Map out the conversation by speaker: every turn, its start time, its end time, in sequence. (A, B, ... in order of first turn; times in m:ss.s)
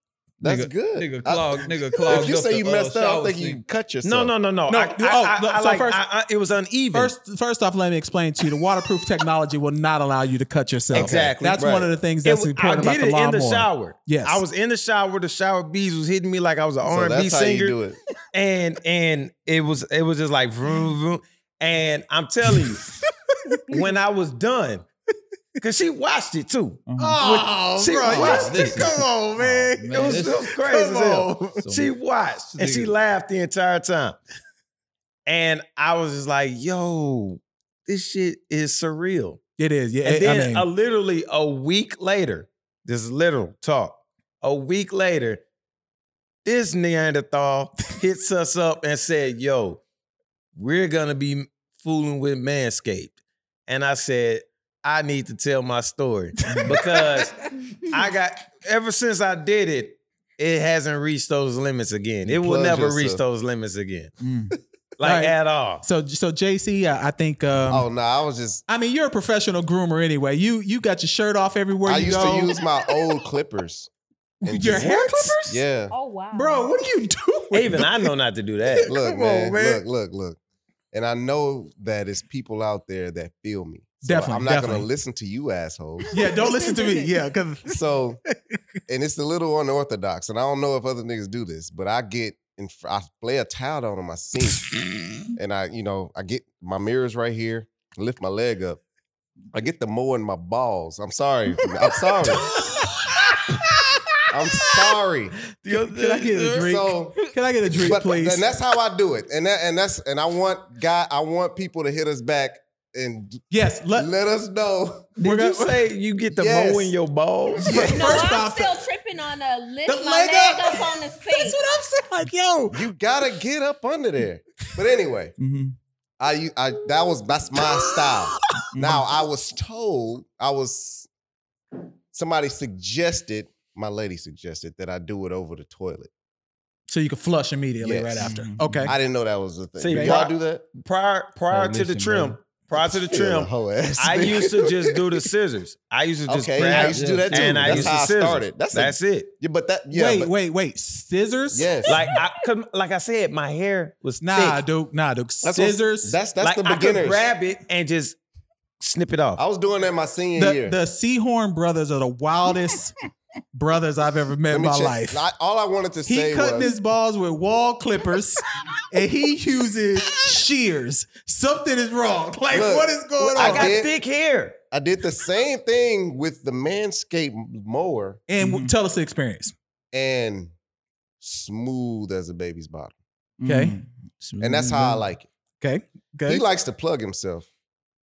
0:00.4-0:04.3 A
0:00.4-0:03.6 B
0:04.0-0:07.1 C
0:04.7-0:06.0 D
0:06.9-0:14.4 D
0:10.9-0:17.8 C
0:10.9-0:11.9 A
0:16.8-0:18.0 A
0:18.3-0:22.9 C
0:23.4-0:23.9 D
0:23.7-0:24.8 C
0:25.6-0:29.0 C
0:26.9-0:27.2 B
0:27.0-0:31.6 D
0:28.0-0:30.5 B
0:29.9-0:34.2 C
0:31.6-0:31.9 B
0:32.5-0:32.9 B
0:35.3-0:39.4 C
0:39.6-0:40.6 D
0:40.0-0:45.4 C
0:46.4-0:49.8 C
0:50.6-0:53.1 C
0:53.7-1:04.1 C
0:56.5-0:56.8 B
0:56.5-0:58.0 D
1:02.3-1:03.2 A
1:04.2-1:04.6 B
1:05.0-1:05.8 C
1:05.0-1:07.9 D
1:07.7-1:08.6 A
1:08.7-1:13.1 D
1:11.9-1:13.9 A
1:14.4-1:15.9 A
1:14.5-1:15.6 D
1:15.9-1:16.7 E
1:16.3-1:18.1 D
1:17.5-1:18.9 C
1:18.7-1:19.8 D
1:18.9-1:20.4 A
1:20.9-1:26.6 A
1:24.0-1:24.9 D
1:26.1-1:28.3 D
1:26.7-1:27.0 E
1:27.6-1:28.2 A
1:28.9-1:34.7 A
1:35.4-1:38.8 A
1:39.5-1:42.5 A
1:41.8-1:45.0 D
1:44.3-1:45.4 A
1:45.6-1:46.6 B
1:45.7-1:48.5 D
1:46.6-1:47.3 A
1:47.8-1:53.4 A
1:53.5-1:54.1 D
1:54.0-1:55.1 A
1:55.2-1:57.9 C
1:55.2-1:55.8 D
1:56.3-1:56.9 A
1:57.6-1:58.2 A
1:57.6-1:58.8 D
1:57.9-2:01.6 E
1:59.9-2:02.9 D
2:02.7-2:05.4 A
2:05.4-2:05.8 B
2:06.2-2:11.1 A
2:07.6-2:08.6 D
2:08.7-2:09.1 B
2:12.1-2:16.1 A
2:16.9-2:19.0 D
2:17.8-2:20.6 A
2:18.2-2:18.9 B
2:19.8-2:29.3 C
2:19.9-2:20.2 D
2:21.5-2:22.4 B
2:22.8-2:25.1 A
2:26.3-2:30.3 A
2:26.6-2:28.0 B
2:29.9-2:31.8 D
2:31.5-2:32.1 A
2:31.9-2:34.6 C
2:34.2-2:36.2 D
2:35.4-2:37.3 A
2:36.4-2:38.2 C
2:38.8-2:39.4 C
2:39.4-2:40.8 A
2:40.4-2:43.0 D
2:43.5-2:45.2 D
2:44.5-2:46.7 A
2:46.1-2:53.8 D
2:52.5-2:53.9 A
2:53.4-2:54.6 C
2:54.7-2:58.2 A
2:58.3-2:59.6 D
2:58.4-2:58.8 B
2:59.9-3:00.5 A
3:01.2-3:02.9 A
3:03.4-3:05.0 B
3:03.5-3:03.8 D
3:04.4-3:05.3 A
3:05.6-3:06.4 D
3:06.3-3:07.5 A